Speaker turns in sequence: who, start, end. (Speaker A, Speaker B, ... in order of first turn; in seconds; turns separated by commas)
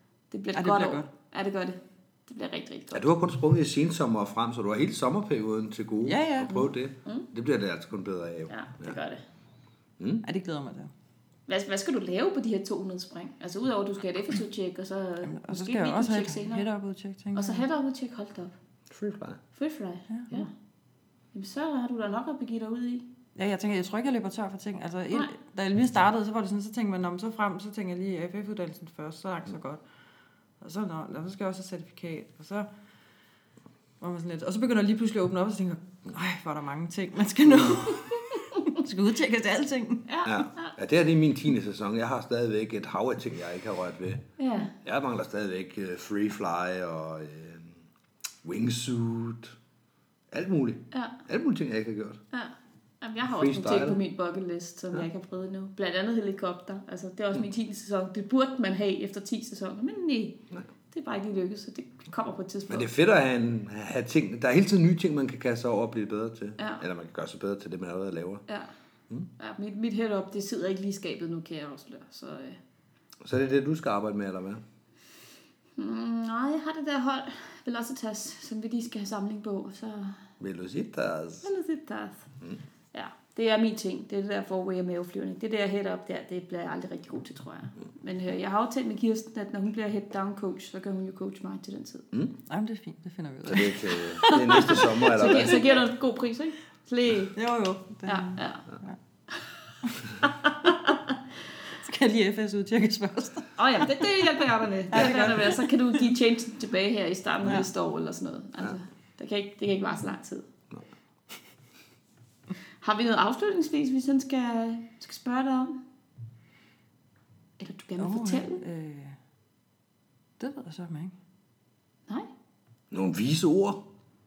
Speaker A: 0.3-3.1, Speaker B: 0.5-1.1, Speaker C: 2.9-9.0, Speaker B: 6.0-6.7, Speaker A: 6.5-7.3, Speaker A: 8.5-9.2, Speaker C: 10.0-10.2, Speaker B: 10.2-10.9, Speaker A: 11.5-16.6, Speaker B: 15.2-17.6, Speaker A: 17.3-18.5, Speaker C: 18.9-19.4, Speaker A: 19.5-20.5, Speaker B: 20.1-20.5, Speaker A: 21.3-23.1, Speaker B: 23.4-29.8, Speaker B: 30.6-32.7, Speaker B: 34.0-40.0, Speaker A: 40.1-40.7, Speaker C: 40.2-44.2, Speaker A: 44.4-44.7, Speaker C: 44.8-47.8, Speaker C: 48.4-49.5, Speaker C: 50.3-52.2, Speaker A: 50.9-51.2, Speaker A: 52.3-60.4, Speaker C: 53.3-54.0, Speaker A: 60.9-62.9, Speaker C: 62.7-68.4, Speaker A: 66.6-66.8, Speaker A: 69.4-72.6, Speaker C: 73.2-74.6, Speaker A: 75.8-80.2, Speaker C: 80.4-81.5, Speaker A: 81.4-82.3, Speaker A: 82.9-92.1, Speaker B: 92.5-95.0, Speaker C: 93.5-95.8, Speaker A: 94.2-97.3, Speaker B: 97.3-99.0, Speaker A: 98.1-98.7, Speaker B: 99.9-100.1, Speaker A: 100.2-100.9, Speaker B: 101.7-104.2, Speaker A: 103.6-110.5, Speaker B: 104.9-106.0, Speaker A: 112.8-115.8, Speaker A: 117.6-118.6, Speaker B: 118.0-119.2, Speaker B: 120.4-121.1, Speaker C: 122.9-123.8